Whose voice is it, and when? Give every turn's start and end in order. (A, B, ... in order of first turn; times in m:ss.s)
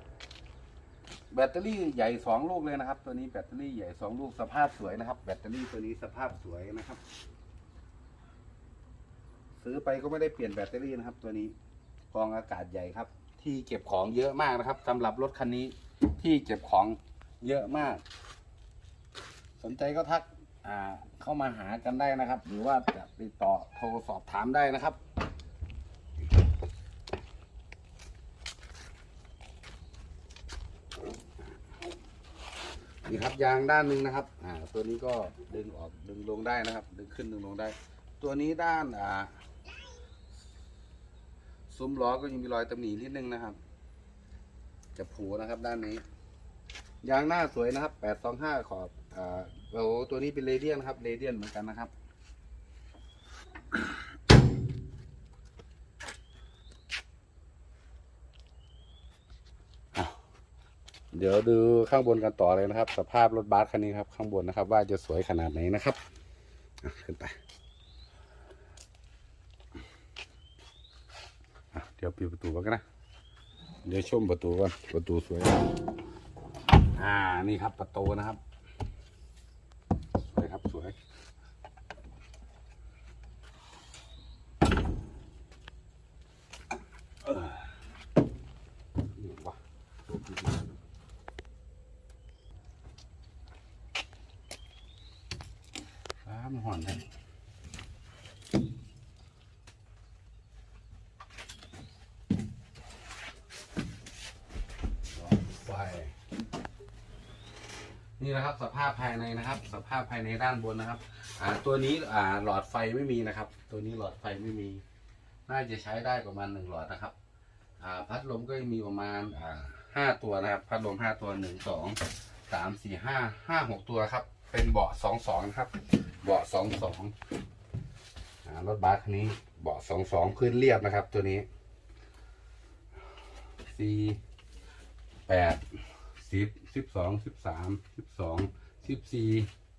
0:01.3-0:07.0 A
0:09.6-0:11.5 A
0:12.1-0:18.0 A
0:19.6-0:25.0 A
0:33.0-0:39.3 A
0:41.7-0:43.6 A
0:45.0-0:46.0 A
0:47.0-0:51.9 A
1:01.1-1:06.0 A
1:06.8-1:07.4 A
1:11.7-1:12.8 A
1:13.8-1:15.7 A
1:17.0-1:18.4 A
1:20.3-1:21.0 A
1:27.2-1:27.7 A
1:29.1-1:30.5 A
1:36.2-1:37.0 A
1:45.1-1:46.1 A
1:48.2-1:54.8 A
1:55.5-1:57.1 A
1:57.8-2:07.1 A
2:08.4-2:11.5 A
2:13.6-2:14.2 A
2:15.3-2:15.6 A
2:16.2-2:19.5 A